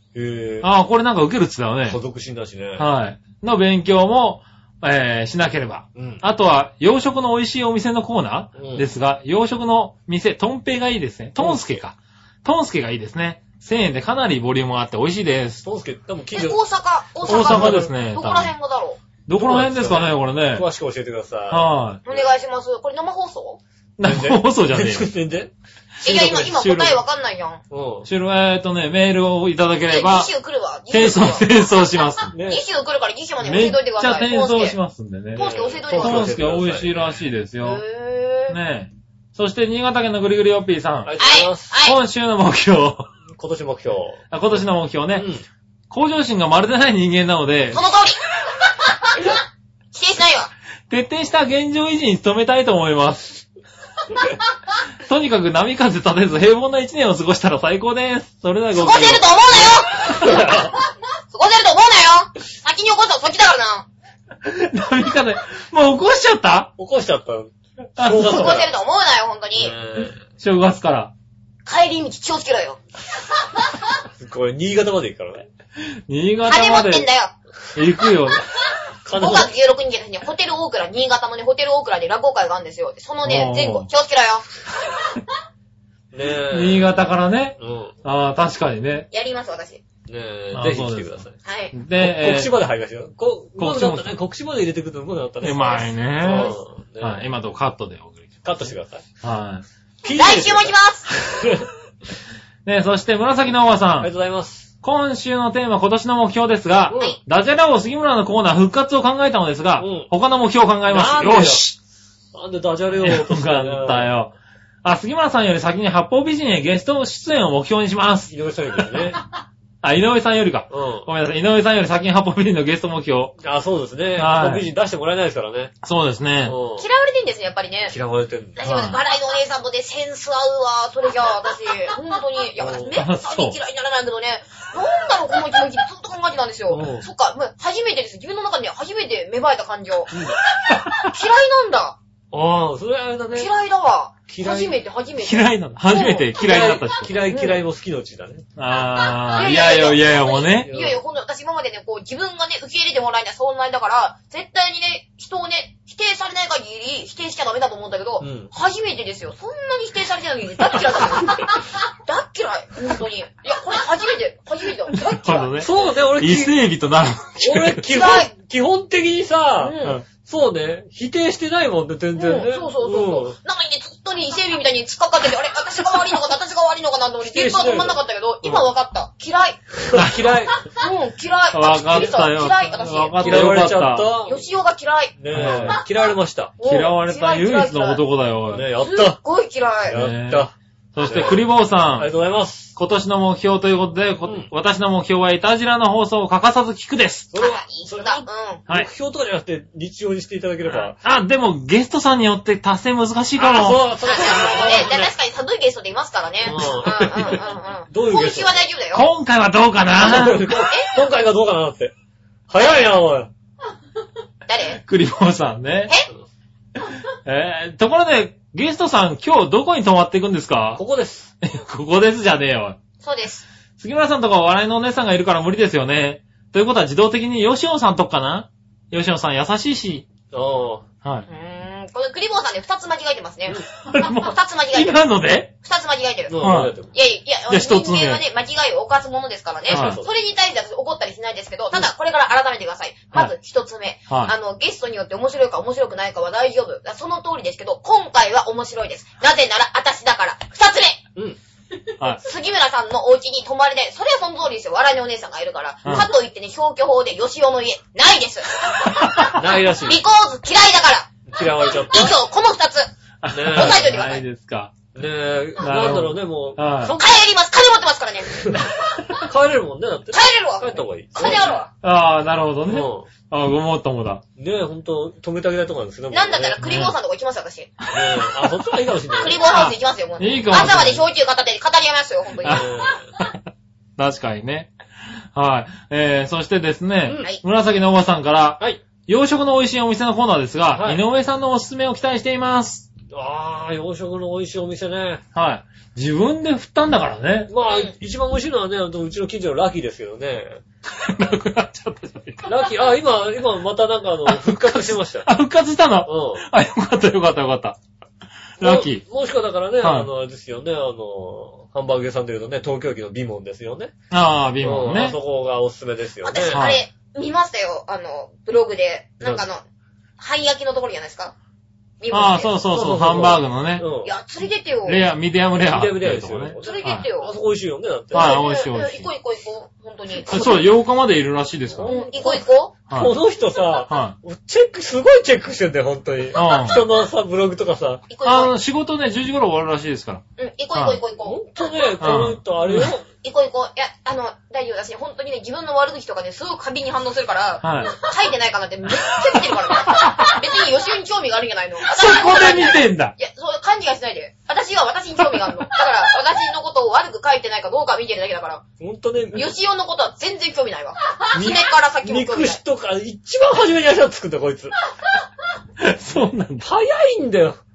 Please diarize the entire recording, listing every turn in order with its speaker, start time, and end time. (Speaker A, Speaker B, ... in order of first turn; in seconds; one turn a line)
Speaker A: 0.1-0.7
Speaker B: 0.6-2.0
Speaker A: 1.9-2.9
Speaker B: 2.8-15.6
Speaker A: 6.0-6.2
Speaker A: 8.5-8.9
Speaker A: 11.4-11.8
Speaker A: 15.6-16.6
Speaker C: 16.3-19.0
Speaker B: 17.2-18.5
Speaker A: 17.3-17.9
Speaker B: 19.3-20.6
Speaker A: 19.4-22.3
Speaker B: 21.5-22.0
Speaker C: 22.0-23.6
Speaker B: 24.0-25.1
Speaker A: 24.0-25.5
Speaker B: 26.0-27.0
Speaker C: 26.0-27.6
Speaker A: 27.7-28.1
Speaker B: 28.0-30.3
Speaker C: 29.9-31.7
Speaker B: 30.9-32.3
Speaker A: 32.3-32.6
Speaker C: 32.5-34.8
Speaker B: 33.4-37.8
Speaker C: 35.3-36.3
Speaker A: 35.4-37.2
Speaker C: 37.6-38.6
Speaker B: 38.5-41.1
Speaker A: 41.0-41.7
Speaker C: 41.2-42.0
Speaker B: 41.8-43.1
Speaker A: 43.4-44.2
Speaker B: 44.3-45.3
Speaker A: 45.1-45.4
Speaker B: 45.9-47.8
Speaker C: 47.7-48.2
Speaker C: 49.1-49.4
Speaker C: 49.9-50.5
Speaker B: 50.9-53.4
Speaker B: 55.0-59.3
Speaker C: 58.7-60.7
Speaker A: 60.2-60.7
Speaker C: 61.3-63.9
Speaker B: 64.4-66.7
Speaker A: 66.8-68.7
Speaker B: 68.0-68.6
Speaker C: 68.1-69.7
Speaker A: 69.5-70.2
Speaker B: 70.0-71.1
Speaker C: 71.6-72.8
Speaker A: 74.2-75.5
Speaker B: 75.8-77.1
Speaker C: 76.4-77.3
Speaker B: 77.7-78.4
Speaker A: 79.0-79.5
Speaker C: 79.2-84.5
Speaker B: 83.2-83.9
Speaker A: 86.1-87.0
Speaker B: 86.5-89.1
Speaker A: 87.6-87.9
Speaker C: 89.1-89.8
Speaker A: 90.1-91.3
Speaker B: 90.5-91.2
Speaker C: 91.4-91.7
Speaker B: 91.7-92.5
Speaker A: 92.0-97.2
Speaker B: 93.6-94.2
Speaker B: 95.4-98.4
Speaker C: 96.3-96.5
Speaker A: 98.4-99.0
Speaker B: 99.2-99.6
Speaker A: 100.0-101.7
Speaker C: 100.1-101.2
Speaker B: 102.6-104.1
Speaker A: 104.0-104.7
Speaker B: 104.8-111.8
Speaker A: 106.9-107.2
Speaker A: 109.8-110.1
Speaker A: 110.9-111.6
Speaker A: 112.3-114.1
Speaker B: 113.0-118.3
Speaker A: 118.3-119.2
Speaker B: 119.8-123.3
Speaker A: 120.7-121.1
Speaker A: 123.4-125.7
Speaker B: 124.2-124.7
Speaker B: 125.8-126.5
Speaker A: 126.5-126.8
Speaker C: 126.8-127.9
Speaker A: 127.9-128.6
Speaker C: 128.6-140.2
Speaker B: 128.6-129.0
Speaker A: 132.6-132.9
Speaker B: 132.9-133.6
Speaker A: 136.7-137.1
Speaker A: 140.1-140.4
Speaker B: 140.7-141.1
Speaker C: 140.9-142.0
Speaker A: 142.3-143.5
Speaker C: 143.3-147.6
Speaker A: 144.3-144.8
Speaker B: 145.2-147.2
Speaker A: 146.3-148.4
Speaker B: 148.6-150.7
Speaker C: 149.3-165.6
Speaker A: 150.7-151.0
Speaker A: 158.2-158.5
Speaker B: 165.1-167.8
Speaker A: 165.6-166.6
Speaker A: 167.4-173.3
Speaker C: 167.9-168.3
Speaker C: 169.6-170.0
Speaker C: 172.2-179.6
Speaker A: 177.2-178.7
Speaker A: 179.8-180.6
Speaker B: 179.9-180.4
Speaker C: 180.7-183.6
Speaker B: 181.5-184.1
Speaker A: 183.2-184.4
Speaker C: 184.2-185.7
Speaker A: 185.2-186.6
Speaker B: 185.3-185.8
Speaker C: 186.6-188.0
Speaker B: 186.6-188.7
Speaker A: 188.5-189.2
Speaker C: 188.8-189.9
Speaker A: 189.9-192.7
Speaker B: 189.9-192.1
Speaker B: 192.8-197.3
Speaker A: 194.2-194.5
Speaker A: 197.3-200.9
Speaker C: 197.3-198.6
Speaker B: 200.7-203.9
Speaker A: 203.4-205.1
Speaker C: 204.0-209.1
Speaker A: 206.4-208.7
Speaker B: 208.9-210.5
Speaker A: 210.0-211.9
Speaker C: 210.4-211.0
Speaker A: 212.5-213.3
Speaker C: 214.5-214.8
Speaker B: 214.8-215.9
Speaker B: 216.9-220.8
Speaker A: 220.8-221.3
Speaker B: 221.4-222.8
Speaker C: 223.0-223.4
Speaker B: 223.8-230.1
Speaker A: 230.3-230.8
Speaker C: 231.3-235.0
Speaker B: 233.8-235.5
Speaker C: 235.6-236.4
Speaker A: 236.3-236.9
Speaker B: 236.4-236.7
Speaker C: 236.9-251.0
Speaker B: 237.5-238.2
Speaker A: 239.7-240.1
Speaker B: 239.7-240.0
Speaker B: 244.1-244.3
Speaker C: 252.2-259.2
Speaker B: 259.0-259.3
Speaker A: 259.3-260.0
Speaker C: 259.8-262.9
Speaker A: 261.3-262.1
Speaker B: 263.2-264.8
Speaker A: 263.3-263.9
Speaker C: 263.4-264.2
Speaker A: 264.9-266.8
Speaker B: 265.6-266.9
Speaker C: 266.8-268.6
Speaker A: 269.1-271.6
Speaker C: 270.1-271.7
Speaker B: 271.4-274.2
Speaker A: 272.7-273.1
Speaker A: 274.4-276.6
Speaker C: 276.1-277.7
Speaker B: 276.6-276.9
Speaker A: 277.9-279.4
Speaker C: 279.1-282.7
Speaker B: 279.4-281.0
Speaker B: 282.4-283.4
Speaker A: 282.4-283.1
Speaker B: 284.0-284.7
Speaker B: 285.3-292.9
Speaker A: 290.7-291.0
Speaker A: 293.1-295.2
Speaker B: 295.3-297.5
Speaker A: 297.5-300.6
Speaker C: 297.7-297.9
Speaker B: 300.9-302.5
Speaker A: 302.4-305.3
Speaker B: 304.2-307.8
Speaker A: 306.1-306.4
Speaker B: 308.6-309.0
Speaker A: 308.6-313.9
Speaker B: 309.8-310.1
Speaker B: 314.1-315.2
Speaker A: 314.6-316.6
Speaker C: 316.2-319.6
Speaker B: 316.5-316.8
Speaker C: 320.2-321.3
Speaker C: 322.0-322.5
Speaker B: 322.1-323.9
Speaker A: 322.7-324.1
Speaker C: 324.0-325.0
Speaker B: 324.8-327.1
Speaker A: 325.6-328.4
Speaker C: 326.6-327.3
Speaker B: 328.1-329.1
Speaker C: 328.1-330.7
Speaker B: 330.2-331.9
Speaker A: 331.7-338.1
Speaker C: 331.8-332.7
Speaker B: 332.9-333.1
Speaker B: 333.9-334.1
Speaker B: 336.3-336.8
Speaker C: 338.1-338.5
Speaker B: 338.2-340.2
Speaker C: 340.4-341.4
Speaker B: 340.7-341.0
Speaker A: 341.2-343.0
Speaker B: 342.0-342.9
Speaker C: 343.2-358.6
Speaker B: 347.6-347.9
Speaker B: 349.3-350.4
Speaker B: 351.8-353.1
Speaker A: 358.8-359.5
Speaker C: 359.3-362.6
Speaker A: 361.3-364.7
Speaker B: 365.8-366.6
Speaker A: 366.6-367.6